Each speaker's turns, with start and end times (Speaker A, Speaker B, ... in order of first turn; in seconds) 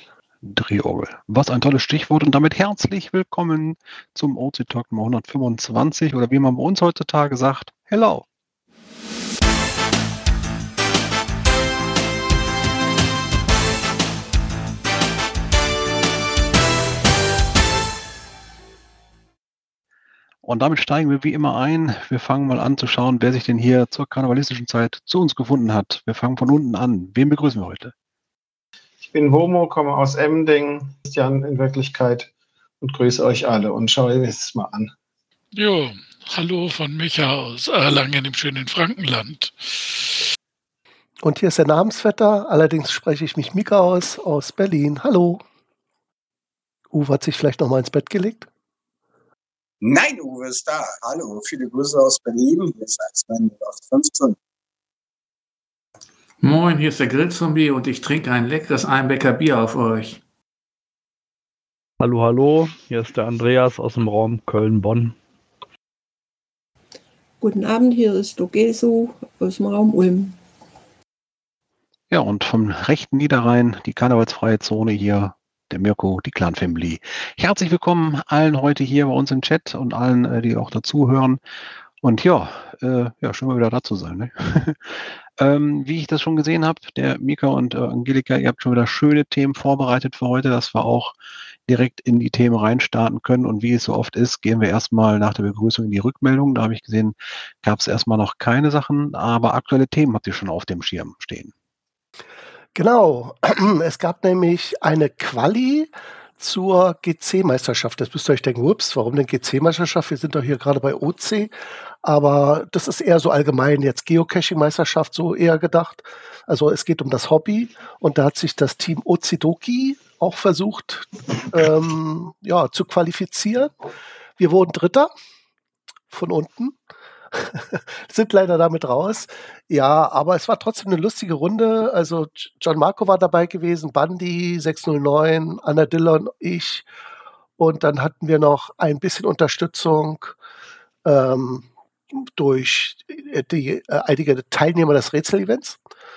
Speaker A: 0.4-8.2, 20.4-27.9, 72.1-81.4, 82.0-91.1, 91.7-101.5
Speaker B: 29.0-32.3, 32.8-34.9
Speaker C: 35.5-40.1
Speaker D: 41.2-45.4, 46.9-48.5, 102.7-123.7, 124.4-125.1, 126.1-126.8, 127.3-136.8, 137.6-140.3, 141.0-145.8
Speaker E: 49.8-54.4
Speaker F: 56.4-60.2
Speaker G: 62.0-65.2
Speaker H: 67.4-70.4